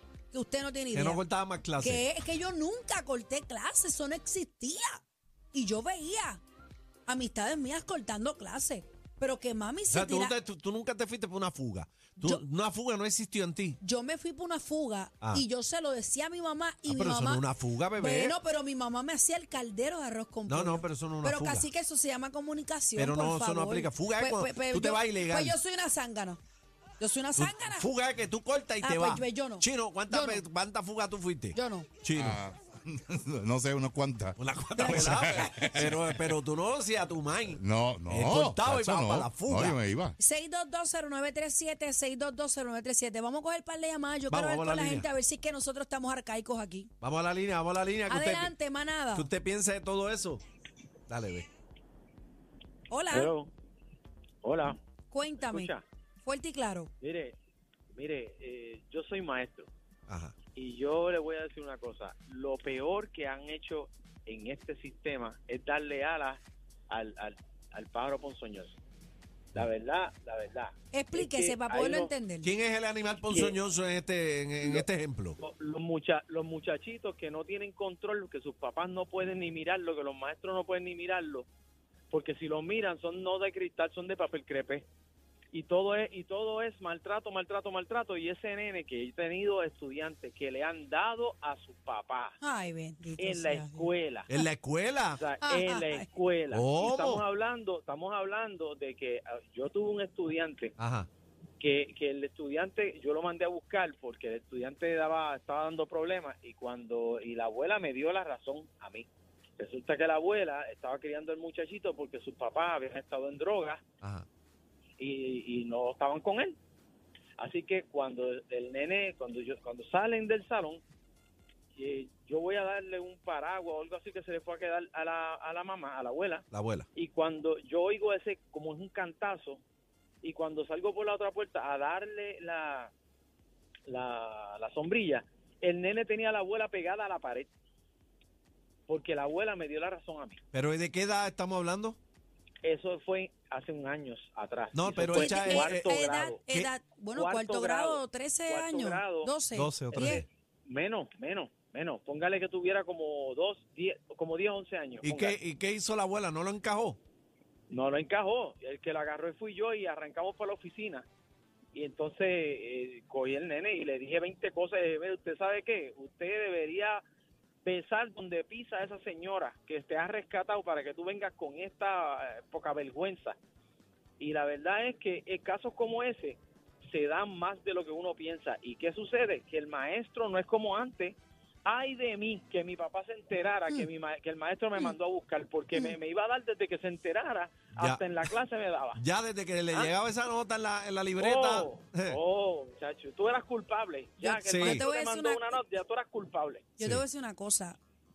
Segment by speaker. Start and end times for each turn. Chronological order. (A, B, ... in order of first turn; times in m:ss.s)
0:00.3-0:01.2 A
0:00.9-0:02.0 B
0:01.8-0:05.0 A
0:05.5-0:06.4 A
0:07.1-0:10.4 A
0:09.9-0:13.8 B
0:13.8-0:17.4 A
0:16.9-0:18.4 B
0:18.0-0:26.4 A
0:20.5-0:21.7 B
0:23.0-0:25.6 B
0:27.0-0:27.9 A
0:27.4-0:32.4 B
0:28.8-0:30.4 A
0:31.5-0:31.9 A
0:32.2-0:36.3 C
0:34.4-0:39.8 B
0:34.8-0:35.7 A
0:37.5-0:40.2 C
0:40.2-0:46.9 A
0:44.3-0:45.1 B
0:47.0-0:48.6 B
0:48.1-0:49.3 A
0:49.1-0:50.4 B
0:51.1-0:51.5 B
0:52.9-0:53.3 A
0:53.1-0:53.5 D
0:54.4-0:54.8 D
0:55.1-0:56.9 A
0:55.4-0:55.8 D
0:57.0-0:57.4 D
0:57.9-0:59.7 D
1:00.1-1:00.4 B
1:00.5-1:08.8 D
1:09.5-1:12.1 D
1:10.9-1:12.5 A
1:12.4-1:15.4 B
1:13.3-1:13.6 D
1:14.6-1:14.9 D
1:15.4-1:21.5 D
1:22.1-1:24.9 D
1:25.5-1:32.4 D
1:32.4-1:33.9 A
1:33.2-1:34.3 D
1:34.3-1:35.2 B
1:35.2-1:40.7 D
1:35.4-1:36.1 A
1:36.5-1:37.2 B
1:40.8-1:41.1 B
1:41.6-1:49.1 D
1:49.6-1:53.8 D
1:55.0-1:56.6 D
1:57.4-2:00.8 D
2:01.8-2:09.6 D
2:06.5-2:06.9 B
2:10.2-2:12.9 D
2:13.9-2:17.5 D
2:18.9-2:20.4 D
2:20.5-2:22.0 B
2:22.6-2:26.4 D
2:24.7-2:26.7 B
2:25.1-2:30.2 A
2:27.1-2:29.3 D
2:29.5-2:30.3 B
2:29.9-2:35.4 D
2:35.0-2:37.0 B
2:37.7-2:41.1 D
2:41.7-2:47.0 D
2:47.6-2:53.4 D
2:54.2-3:09.0 D
3:05.7-3:06.0 A
3:07.8-3:08.3 B
3:09.0-3:12.2 B
3:11.2-3:16.7 D
3:14.2-3:15.6 A
3:14.5-3:14.8 B
3:16.8-3:17.8 A